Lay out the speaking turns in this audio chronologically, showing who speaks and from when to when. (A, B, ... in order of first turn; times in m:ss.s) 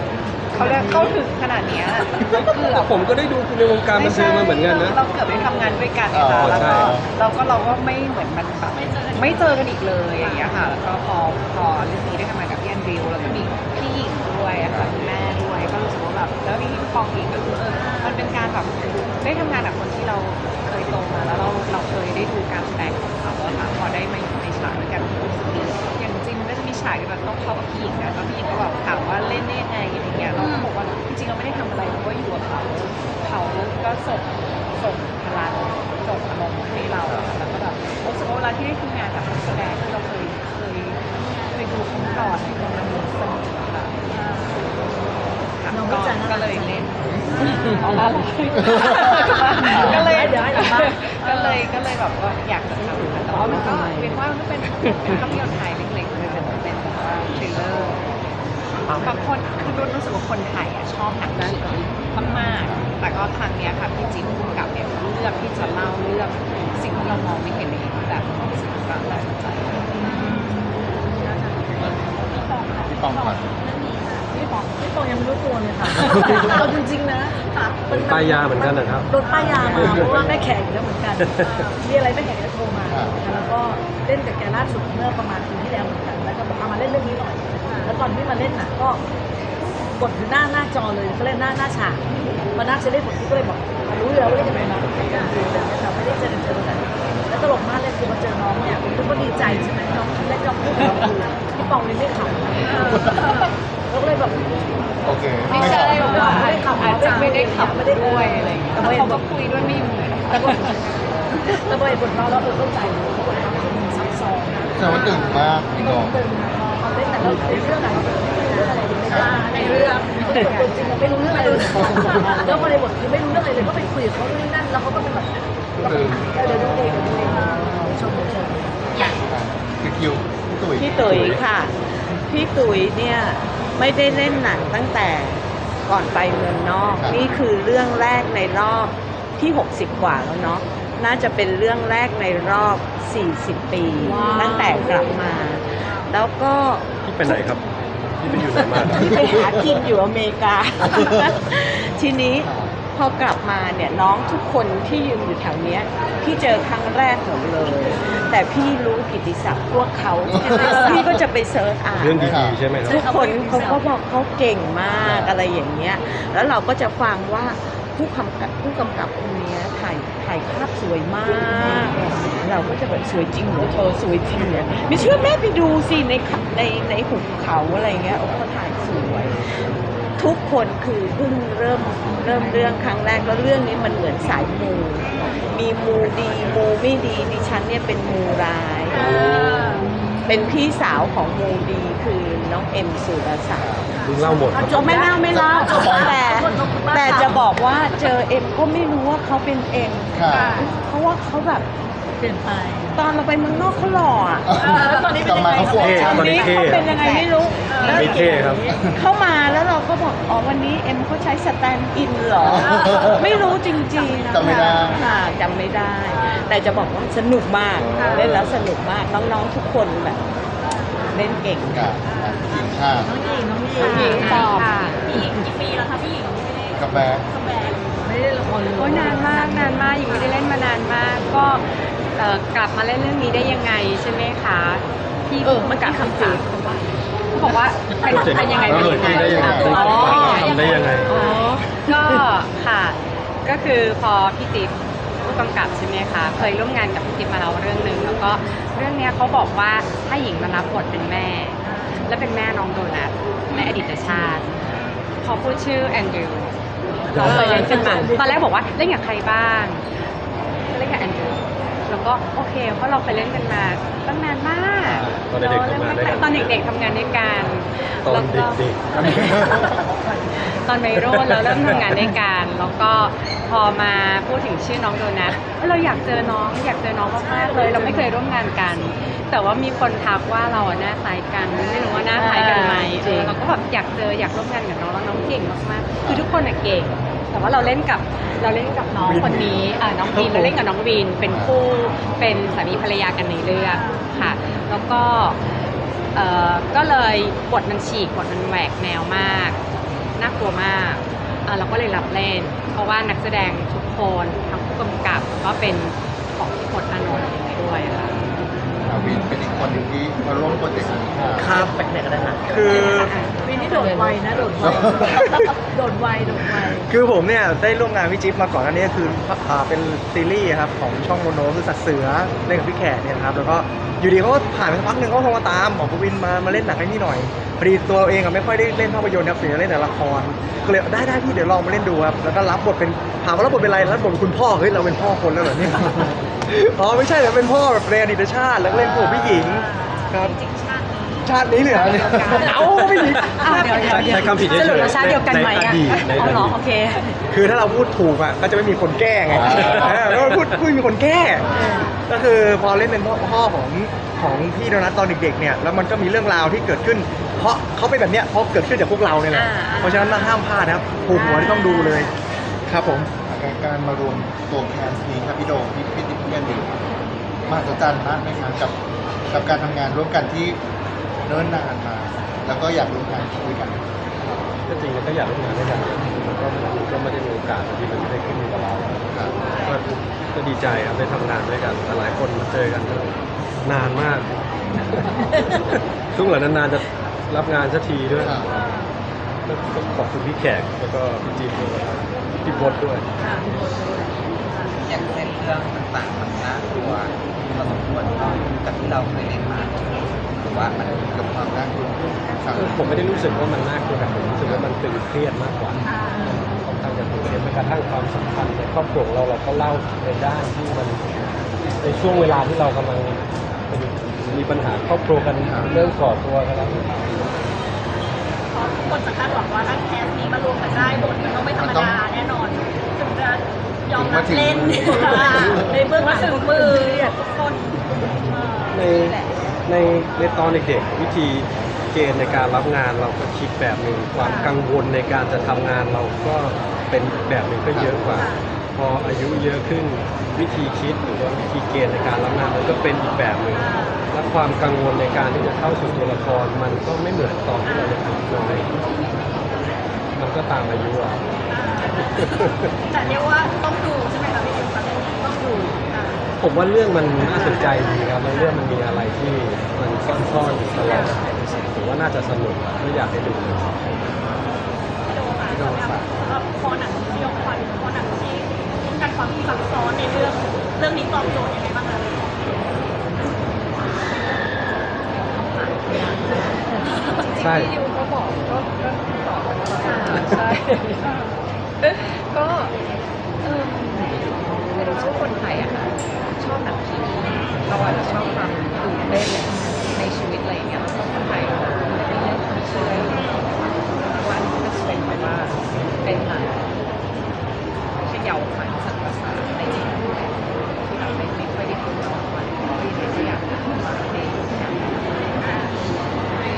0:00.5-0:03.0 A
0:02.7-0:05.0 B
0:03.9-0:44.1 A
0:06.1-0:07.1 C
0:06.4-0:07.0 B
0:08.7-0:09.6 D
0:10.2-0:10.5 D
0:14.7-0:15.0 C
0:17.7-0:18.3 D
0:30.4-0:30.6 E
0:41.3-0:42.4 D
0:44.1-0:44.6 D
0:45.5-0:58.0 A
0:45.7-0:51.0 F
0:47.3-0:48.0 D
0:48.8-0:49.1 C
0:51.2-0:51.6 D
0:58.9-1:09.9 A
1:10.0-1:10.7 D
1:12.4-1:14.2 D
1:12.9-1:13.4 C
1:14.3-1:29.0 F
1:17.5-1:17.9 D
1:17.9-1:20.3 B
1:19.2-1:20.1 D
1:21.2-1:21.6 B
1:21.4-1:21.9 D
1:22.9-1:23.2 C
1:27.6-1:27.9 D
1:30.0-1:32.0 F
1:32.5-1:42.7 F
1:35.1-1:35.3 D
1:42.7-1:43.2 D
1:43.9-1:44.4 F
1:45.0-1:46.0 C
1:45.5-1:51.5 A
1:45.5-1:49.2 F
1:45.8-1:46.4 D
1:50.3-1:50.7 F
1:51.5-1:55.1 F
1:54.8-1:56.2 C
1:55.7-2:05.3 F
1:59.0-1:59.3 C
1:59.1-2:00.7 D
2:01.4-2:02.6 D
2:01.9-2:02.5 C
2:05.8-2:06.3 C
2:05.8-2:08.8 F
2:09.3-2:11.4 C
2:10.8-2:27.4 E
2:17.0-2:17.3 C
2:24.0-2:24.8 F
2:27.0-2:27.6 B
2:28.2-2:29.2 B
2:28.8-2:59.4 E
2:28.9-2:29.5 C
2:32.4-2:32.8 C
2:40.3-2:40.8 C
2:42.0-2:43.1 B
2:42.2-2:42.6 C
2:43.5-2:43.8 D
2:45.0-2:45.4 C
2:51.5-2:52.0 F
3:00.2-3:09.2 E
3:08.9-3:09.9 D
3:09.3-3:09.6 B
3:10.2-3:13.9 E
3:13.6-3:13.8 C
3:14.0-3:14.2 D
3:14.0-3:15.0 B
3:14.5-3:17.4 F
3:14.6-3:21.6 E
3:15.4-3:16.1 C
3:20.1-3:20.7 C
3:20.3-3:20.7 D
3:22.2-3:23.0 F
3:23.0-3:24.7 E
3:24.5-3:26.3 C
3:24.6-3:25.4 D
3:24.6-3:28.9 F
3:25.5-3:40.2 E
3:25.7-3:26.9 B
3:27.7-3:28.2 D
3:27.9-3:28.6 B
3:32.4-3:33.4 C
3:32.7-3:33.2 D
3:33.9-3:35.2 D
3:34.3-3:35.0 C
3:36.3-3:36.6 D
3:37.7-3:38.6 C
3:37.9-3:38.2 D
3:40.6-3:41.3 D
3:41.1-3:41.9 E
3:41.7-3:43.1 C
3:42.0-3:47.9 D
3:43.0-3:44.6 F
3:43.8-3:45.0 G
3:46.8-3:47.3 C
3:48.0-3:50.0 F
3:48.8-3:56.5 G
3:50.0-3:50.6 D
3:55.4-3:56.9 E
3:57.3-4:00.6 G
3:58.1-4:01.1 B
3:58.3-4:01.1 D
3:59.7-4:00.5 E
4:01.0-4:01.7 E
4:01.1-4:14.5 G
4:15.2-4:16.6 G
4:17.1-4:18.4 F
4:17.1-4:19.9 G
4:20.7-4:29.8 G
4:25.0-4:26.5 B
4:28.0-4:29.3 B
4:30.6-4:59.6 G
4:31.0-4:31.9 B
4:37.2-4:38.4 F
4:42.1-4:43.3 E
4:49.0-4:50.6 H
4:51.3-4:51.6 C
4:53.7-4:54.1 D
5:00.2-5:08.2 G
5:08.8-5:11.6 C
5:11.4-5:11.7 H
5:12.4-5:13.2 H
5:12.7-5:14.0 G
5:13.4-5:16.9 F
5:14.6-5:15.2 C
5:15.0-5:15.5 H
5:16.7-5:40.3 H
5:38.8-5:40.0 D
5:40.1-5:42.8 A
5:41.2-5:44.2 H
5:41.7-5:42.5 C
5:43.0-5:43.3 B
5:43.4-5:47.2 E
5:43.4-5:43.7 G
5:43.5-5:44.9 A
5:43.8-5:46.6 B
5:47.3-5:51.5 H
5:49.3-5:50.0 C
5:49.5-5:50.5 B
5:51.5-5:51.9 F
5:52.0-6:02.1 H
5:59.3-6:00.2 E
6:01.3-6:02.0 E
6:02.7-6:03.1 H
6:03.3-6:06.8 C
6:07.4-6:08.7 C
6:09.3-6:10.6 C
6:11.2-6:13.8 C
6:14.7-6:19.0 B
6:19.4-6:19.8 A
6:19.6-6:24.2 B
6:24.8-6:28.4 B
6:28.2-6:28.5 C
6:29.5-6:33.0 B
6:34.8-6:41.1 I
6:41.1-6:43.2 C
6:42.5-6:51.0 B
6:44.4-6:44.7 C
6:45.9-6:46.2 D
6:51.8-6:57.3 B
6:58.5-7:09.2 D
7:01.6-7:02.0 C
7:03.9-7:05.8 C
7:04.9-7:07.2 F
7:08.7-7:28.7 B
7:10.1-7:10.5 D
7:14.2-7:14.5 D
7:17.7-7:18.2 C
7:23.5-7:24.1 D
7:27.6-7:29.2 D
7:30.2-7:31.2 B
7:31.5-7:36.2 D
7:32.0-7:32.7 B
7:36.4-7:43.8 B
7:37.3-7:37.7 D
7:40.8-7:41.2 D
7:45.1-7:52.7 D
7:55.1-7:56.1 A
7:55.5-7:56.1 D
7:56.8-8:02.7 A
7:56.8-7:57.2 D
7:57.4-7:57.7 B
7:59.8-8:00.2 D
8:03.4-8:16.6 A
8:18.0-8:25.4 A
8:25.4-8:25.7 D